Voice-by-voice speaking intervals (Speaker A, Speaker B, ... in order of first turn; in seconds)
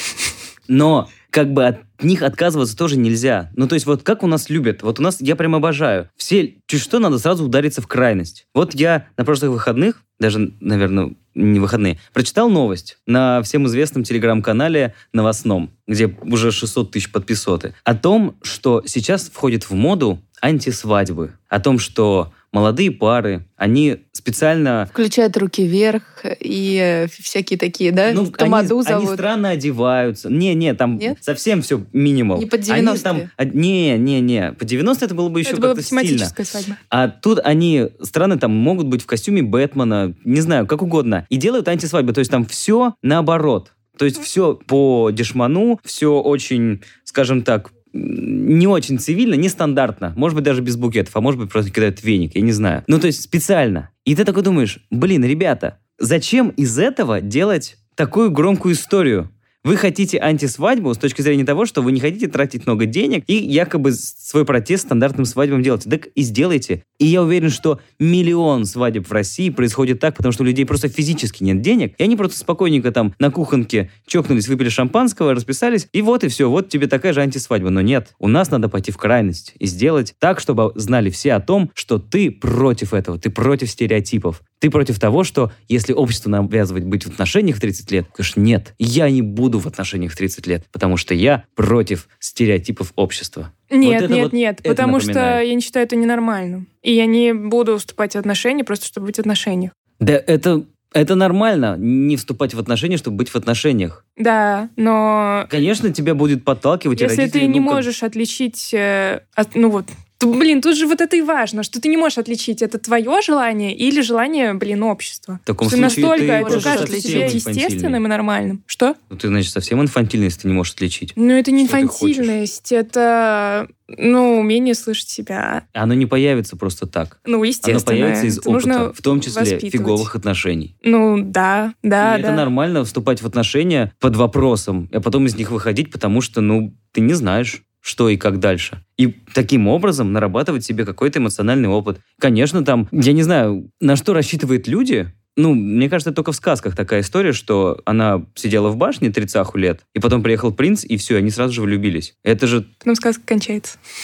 Speaker A: 0.7-24.9, 28.1-36.3, 36.9-95.4, 100.0-104.0, 105.5-107.9, 115.5-118.0, 119.1-122.3, 125.7-130.7, 132.0-152.7
Speaker B: 24.9-29.2, 32.3-33.3, 115.8-117.4
Speaker C: 35.4-36.8, 93.7-99.7, 104.2-105.5, 107.0-119.0, 121.2-125.6, 127.2-130.1, 130.8-132.5, 152.8-153.8